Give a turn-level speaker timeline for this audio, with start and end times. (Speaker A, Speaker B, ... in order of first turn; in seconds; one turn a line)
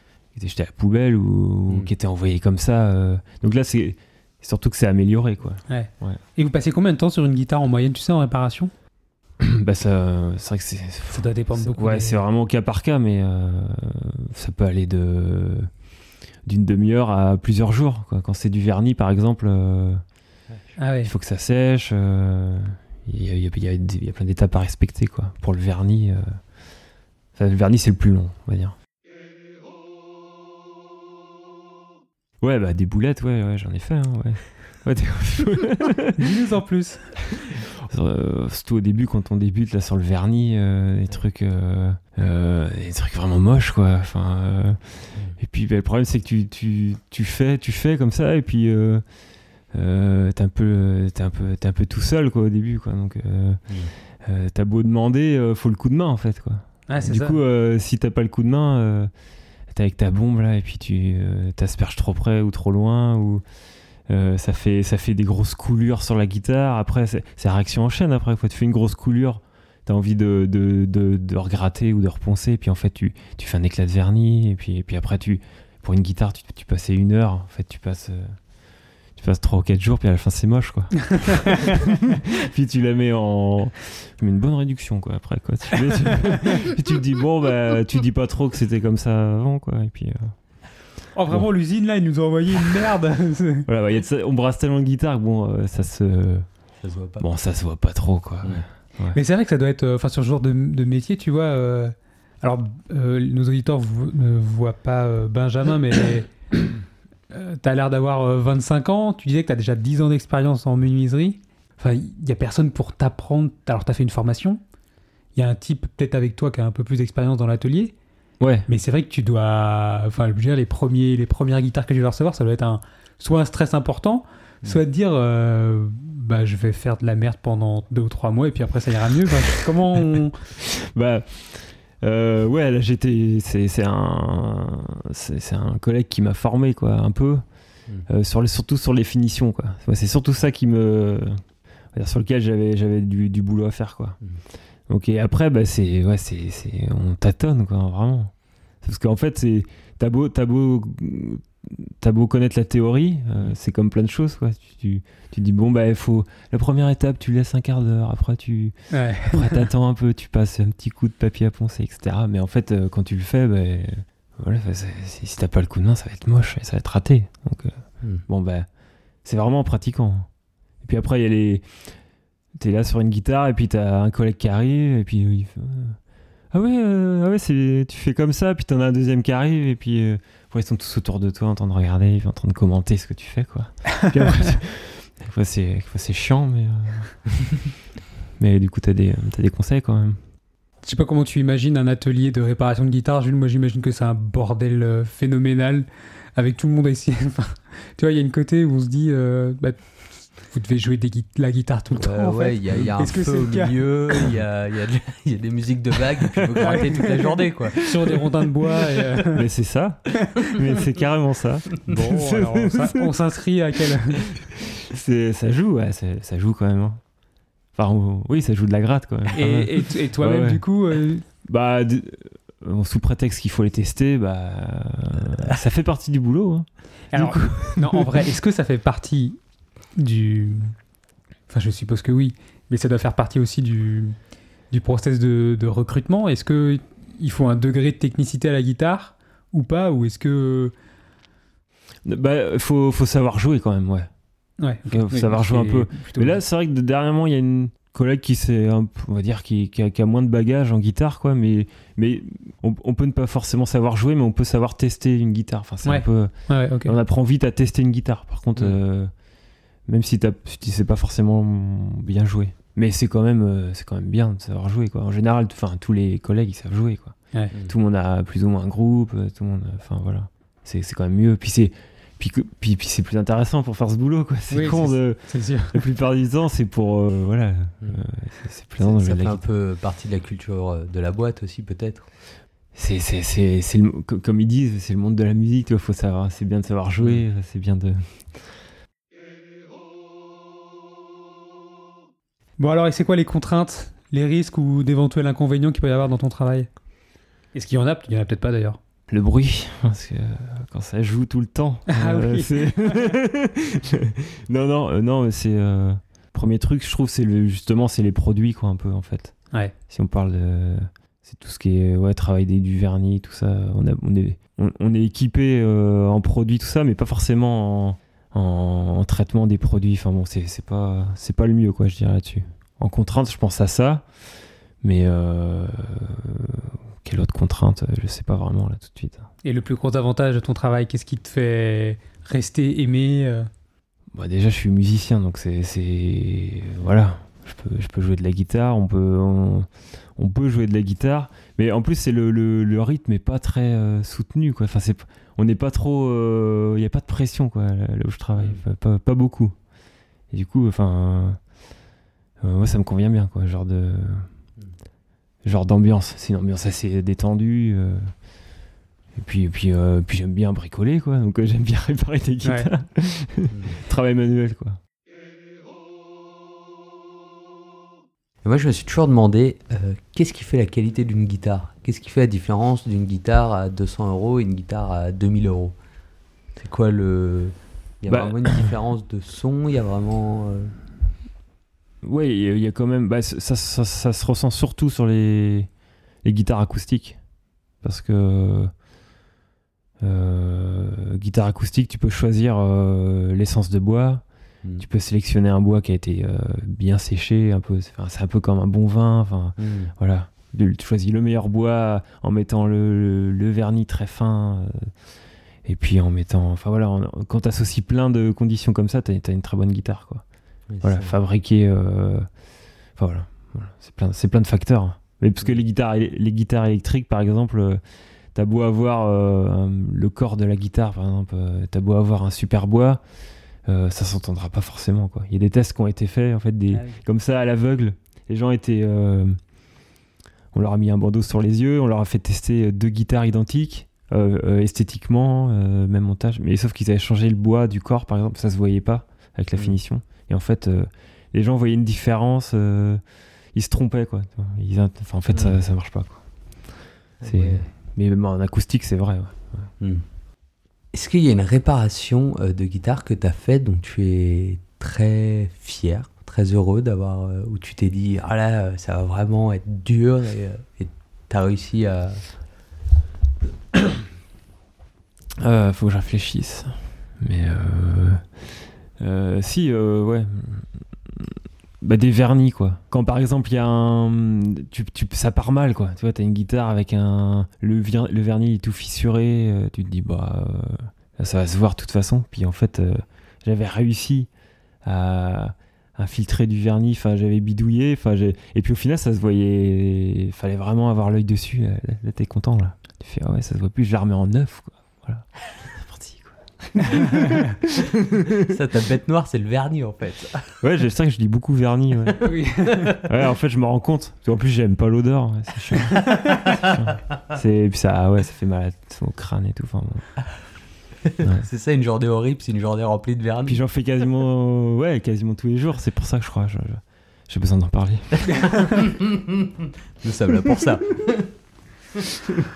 Speaker A: 0.3-6.2
Speaker B: 5.7-8.7
Speaker A: 9.4-15.7
Speaker B: 11.1-12.2
Speaker A: 16.4-20.0
Speaker B: 20.8-21.1
Speaker A: 21.0-26.4
Speaker A: 27.3-28.8
Speaker A: 32.4-36.2
Speaker B: 36.2-37.1
Speaker A: 37.3-49.0
Speaker A: 49.7-53.6
Speaker A: 54.2-59.1
Speaker B: 56.9-57.4
Speaker A: 59.7-63.4
Speaker A: 64.1-78.4
Speaker A: 79.2-90.3
Speaker B: 91.1-93.7
Speaker A: 93.7-96.5
Speaker C: 96.8-97.3
Speaker A: 97.2-99.2
Speaker B: 99.1-106.3
Speaker B: 107.3-114.6
Speaker B: 115.3-117.9
Speaker A: 118.4-118.7
Speaker B: 118.7-130.3
Speaker A: 130.6-137.4
Speaker A: 138.1-141.4
Speaker A: 141.9-144.2
Speaker A: 144.9-168.7
Speaker B: 158.9-159.6
Speaker A: 169.2-170.3
Speaker A: 170.8-172.0
Speaker A: 172.5-187.2
Speaker A: 188.4-190.2
Speaker B: 190.8-204.3
Speaker C: 202.0-208.2
Speaker B: 206.6-209.4
Speaker A: 209.2-213.1
Speaker B: 211.8-214.3
Speaker A: 214.3-217.0
Speaker A: 217.7-220.7
Speaker B: 219.3-221.2
Speaker A: 221.4-228.1
Speaker B: 227.1-229.4
Speaker B: 229.9-230.7
Speaker B: 231.5-234.1
Speaker B: 234.7-240.7
Speaker A: 242.0-244.1
Speaker B: 244.6-246.4
Speaker A: 244.8-259.1
Speaker B: 255.8-256.9
Speaker A: 259.9-279.4
Speaker B: 274.5-275.8
Speaker C: 278.8-282.1
Speaker A: 282.7-288.5
Speaker C: 287.0-287.2
Speaker B: 292.6-296.7
Speaker B: 297.5-298.8
Speaker A: 299.1-309.4
Speaker B: 301.9-303.1
Speaker A: 309.9-324.1
Speaker A: 324.8-329.3
Speaker B: 329.4-333.5
Speaker A: 334.1-349.5
Speaker A: 350.3-351.4
Speaker A: 352.4-354.3
Speaker A: 355.4-358.1
Speaker A: 359.1-364.8
Speaker C: 368.4-375.7
Speaker C: 376.6-380.7
Speaker A: 378.1-378.7
Speaker A: 382.0-385.7
Speaker A: 386.2-387.2
Speaker A: 387.8-388.7
Speaker A: 390.0-394.2
Speaker A: 394.8-404.9
Speaker C: 399.6-399.9
Speaker A: 405.6-410.2
Speaker C: 410.7-411.1
Speaker A: 410.8-412.3
Speaker A: 412.9-417.8
Speaker A: 418.3-423.0
Speaker A: 423.6-429.4
Speaker A: 430.5-443.0
Speaker A: 443.5-446.2
Speaker C: 445.3-445.6
Speaker C: 447.2-447.6
Speaker A: 447.2-449.7
Speaker C: 450.9-462.2
Speaker A: 465.4-468.2
Speaker A: 469.0-484.3
Speaker A: 484.8-498.4
Speaker B: 496.8-497.4
Speaker C: 498.3-500.5
Speaker A: 500.6-502.3
Speaker B: 502.2-503.0
Speaker A: 503.0-510.2
Speaker C: 506.3-506.8
Speaker C: 511.1-513.6
Speaker A: 513.5-518.7
Speaker C: 518.5-519.3
Speaker C: 520.0-521.3